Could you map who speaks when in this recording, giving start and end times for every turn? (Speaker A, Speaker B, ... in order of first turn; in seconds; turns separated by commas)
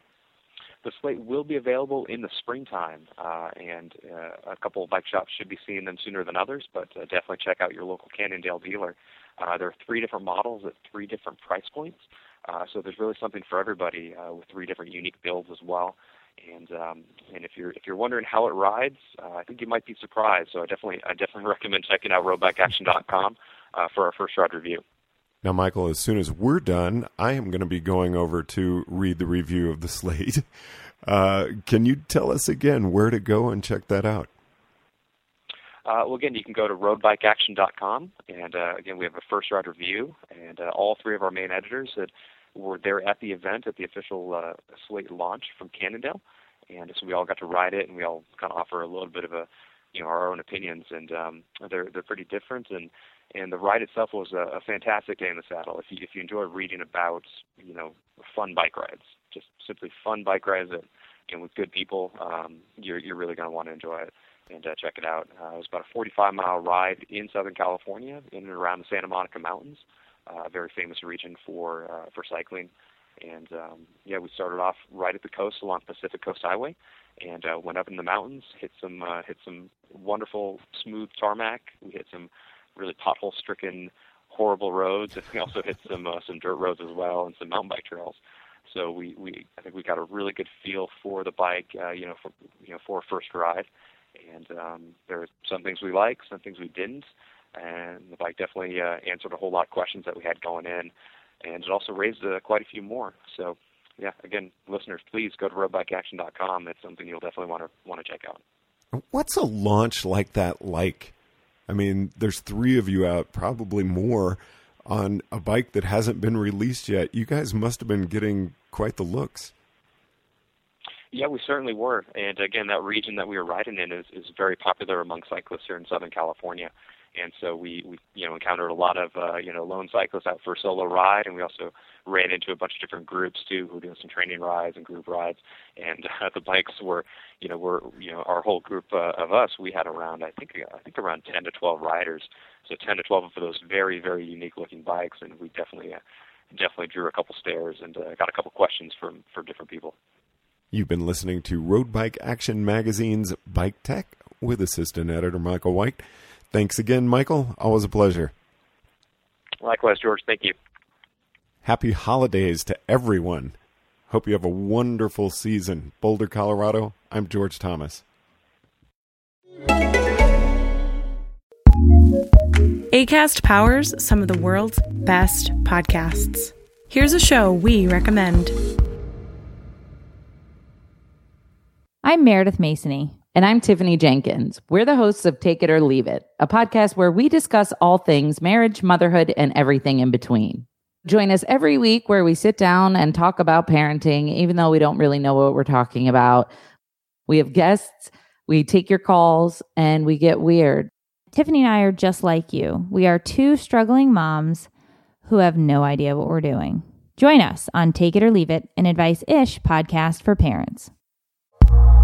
Speaker A: 0.8-24.8, Speaker B: 25.4-30.4, Speaker B: 31.0-34.3, Speaker A: 35.9-88.2, Speaker A: 88.7-100.9, Speaker A: 101.4-108.4, Speaker B: 108.9-111.1, Speaker B: 111.7-119.5, Speaker A: 121.1-146.0, Speaker A: 146.5-149.9, Speaker B: 150.7-158.3, Speaker A: 159.6-160.6, Speaker B: 161.6-163.5, Speaker B: 164.1-168.0, Speaker C: 172.9-178.6, Speaker D: 182.0-183.2, Speaker E: 183.3-196.5, Speaker E: 197.3-200.9, Speaker D: 201.3-204.7, Speaker D: 205.2-210.9